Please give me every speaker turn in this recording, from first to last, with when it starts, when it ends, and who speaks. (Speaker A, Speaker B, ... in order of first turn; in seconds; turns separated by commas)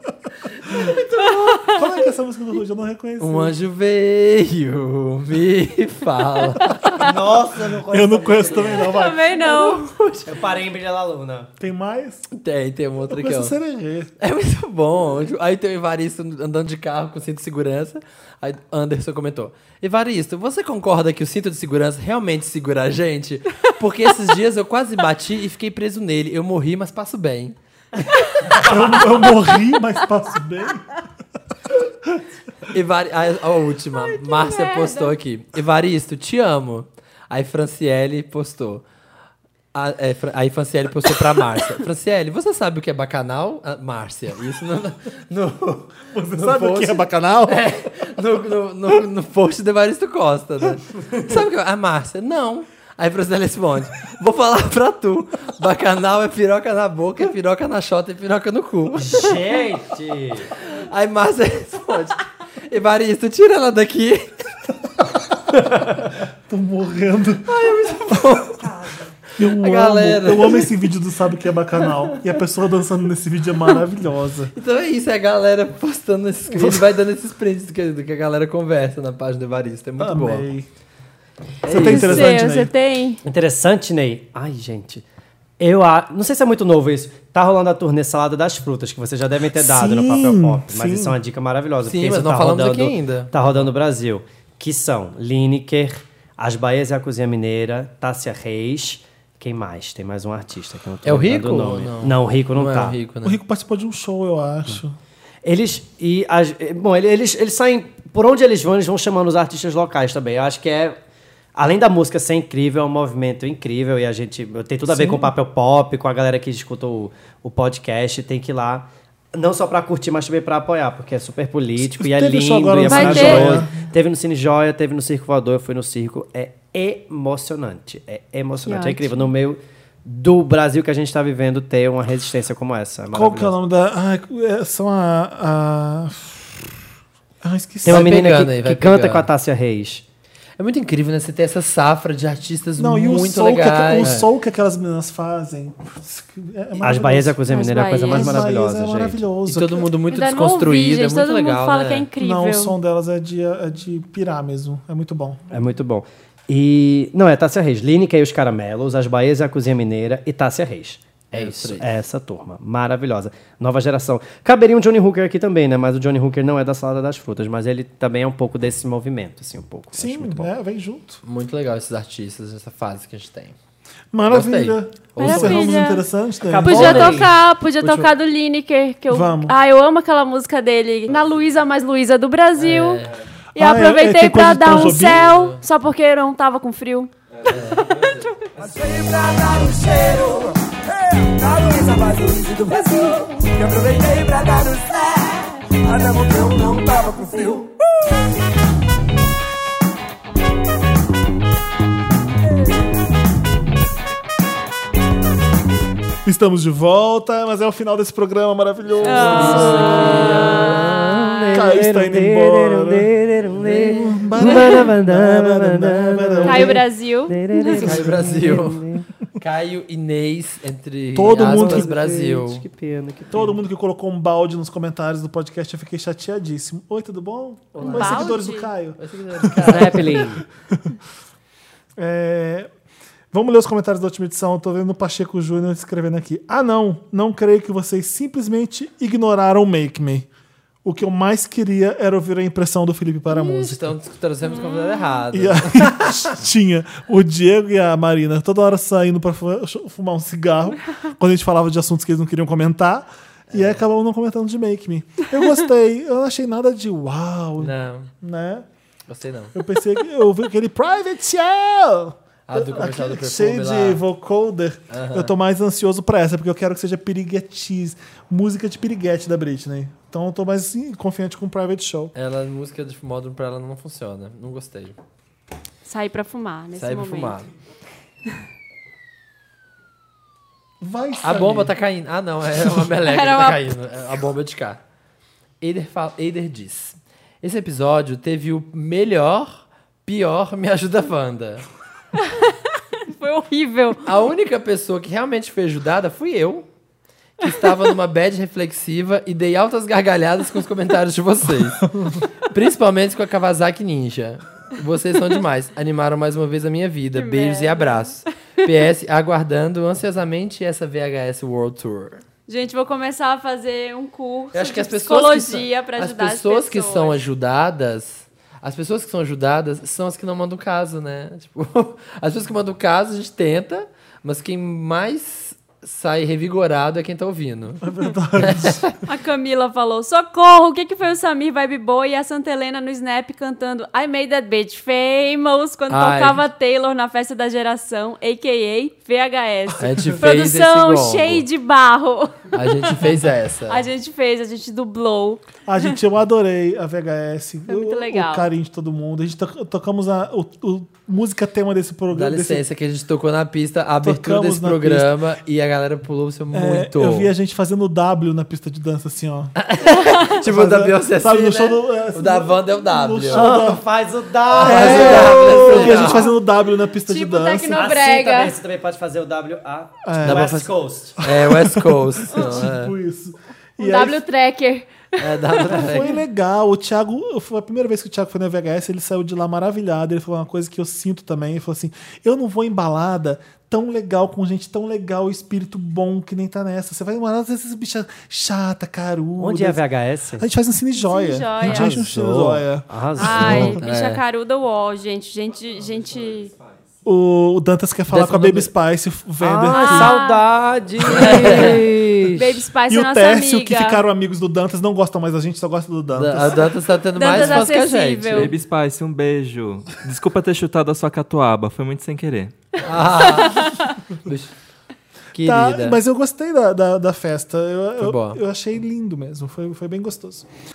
Speaker A: 0.6-1.8, Speaker B: 0.7-0.9, Speaker C: 1.2-1.8, Speaker B: 1.6-3.5, Speaker A: 3.2-7.0, Speaker D: 7.0-8.8, Speaker B: 7.6-9.6, Speaker C: 8.7-9.9, Speaker A: 9.4-10.3, Speaker D: 10.2-11.5, Speaker B: 11.6-12.3, Speaker A: 12.3-13.5, Speaker B: 13.1-14.1, Speaker A: 14.2-27.5, Speaker B: 28.5-30.9, Speaker A: 32.7-38.8, Speaker C: 34.0-35.1, Speaker A: 39.7-59.4, Speaker B: 46.1-47.6, Speaker D: 59.0-60.5, Speaker A: 60.6-64.7, Speaker B: 65.5-68.4, Speaker A: 67.5-70.7, Speaker B: 69.3-74.5, Speaker A: 74.5-80.5, Speaker B: 76.5-76.8, Speaker B: 80.0-80.7, Speaker A: 81.6-82.3, Speaker B: 81.6-82.7, Speaker C: 81.7-83.2, Speaker D: 83.2-85.0, Speaker D: 85.6-103.0, Speaker B: 89.5-91.2, Speaker A: 91.8-93.3, Speaker A: 101.0-103.4, Speaker B: 103.2-105.0, Speaker D: 105.4-111.0, Speaker D: 111.5-133.5, Speaker B: 114.9-115.3, Speaker B: 121.8-123.9, Speaker C: 122.8-123.6, Speaker C: 128.7-129.2, Speaker B: 133.1-136.7, Speaker B: 137.4-138.2, Speaker D: 137.8-140.0, Speaker A: 137.8-139.3, Speaker A: 140.6-144.3, Speaker B: 142.8-149.9, Speaker D: 146.8-149.2, Speaker C: 147.5-148.4, Speaker A: 149.5-152.1, Speaker C: 150.1-152.7, Speaker B: 152.2-155.4, Speaker D: 155.5-170.5, Speaker A: 161.3-161.9, Speaker B: 169.9-171.2, Speaker A: 171.2-173.5, Speaker B: 174.1-177.2, Speaker A: 174.3-175.8, Speaker C: 175.2-176.0, Speaker D: 176.4-177.3, Speaker C: 176.6-183.0, Speaker A: 177.8-178.1, Speaker B: 179.1-179.5, Speaker A: 182.6-183.2, Speaker B: 183.5-185.2, Speaker C: 183.6-188.4, Speaker A: 184.9-185.6, Speaker E: 187.4-188.1, Speaker A: 187.5-188.3, Speaker F: 188.7-190.6, Speaker F: 191.1-197.7, Speaker B: 206.2-210.4, Speaker A: 208.9-211.0, Speaker C: 209.0-211.5, Speaker D: 210.4-219.1, Speaker B: 211.5-213.1, Speaker A: 213.6-214.7, Speaker B: 213.8-216.8, Speaker C: 216.4-217.8, Speaker A: 217.7-218.8, Speaker A: 219.4-222.6, Speaker B: 221.1-221.9, Speaker D: 221.3-223.6, Speaker B: 223.3-230.3, Speaker A: 227.8-228.4, Speaker C: 227.9-228.7, Speaker A: 229.0-230.2, Speaker D: 229.6-230.4, Speaker B: 231.9-232.7, Speaker B: 233.3-240.3, Speaker B: 240.8-243.9, Speaker A: 243.3-246.3, Speaker C: 244.4-245.2, Speaker B: 245.3-258.7, Speaker A: 253.5-253.8, Speaker A: 257.6-258.1, Speaker A: 259.1-259.5, Speaker B: 259.5-272.1, Speaker A: 262.5-264.0, Speaker A: 264.9-265.3, Speaker A: 272.1-275.0, Speaker C: 275.8-277.4, Speaker A: 276.8-277.5, Speaker B: 280.8-281.7, Speaker A: 281.2-284.8, Speaker C: 283.1-283.6, Speaker A: 285.6-291.6, Speaker C: 292.2-294.0, Speaker A: 294.0-296.6, Speaker A: 297.4-301.9, Speaker B: 301.9-302.2, Speaker A: 302.5-312.2, Speaker C: 307.1-308.1, Speaker C: 312.5-317.2, Speaker A: 314.5-327.8, Speaker B: 327.8-328.9, Speaker A: 328.4-329.0, Speaker C: 329.1-343.1, Speaker A: 335.9-336.4, Speaker A: 339.8-341.4, Speaker B: 339.9-340.1, Speaker A: 342.5-343.8, Speaker C: 343.7-345.9, Speaker B: 345.7-352.6, Speaker C: 347.7-348.5, Speaker A: 352.1-357.3, Speaker B: 354.0-355.1, Speaker B: 356.5-359.5, Speaker A: 359.6-363.5, Speaker B: 360.4-363.8, Speaker D: 363.3-366.1, Speaker A: 364.5-366.3, Speaker B: 364.5-367.9, Speaker C: 367.1-368.5, Speaker D: 367.7-371.2, Speaker B: 370.0-374.2, Speaker A: 370.2-372.9, Speaker C: 372.3-372.6, Speaker C: 373.8-376.0, Speaker A: 375.2-376.2, Speaker B: 375.6-389.8, Speaker D: 389.4-390.5, Speaker B: 390.4-393.8, Speaker C: 390.9-391.9, Speaker D: 391.6-393.8, Speaker C: 393.1-396.5, Speaker A: 393.6-394.2, Speaker E: 395.7-397.0, Speaker B: 397.0-400.2, Speaker A: 398.1-398.7, Speaker D: 399.4-402.6, Speaker C: 399.7-400.4, Speaker A: 401.1-401.8, Speaker C: 401.2-401.7, Speaker C: 402.3-404.0, Speaker B: 402.9-406.8, Speaker A: 406.1-408.5, Speaker C: 407.1-408.6, Speaker E: 408.3-412.5, Speaker A: 412.8-414.5, Speaker C: 413.3-413.9, Speaker A: 415.3-416.0, Speaker B: 415.4-420.5, Speaker A: 418.0-418.4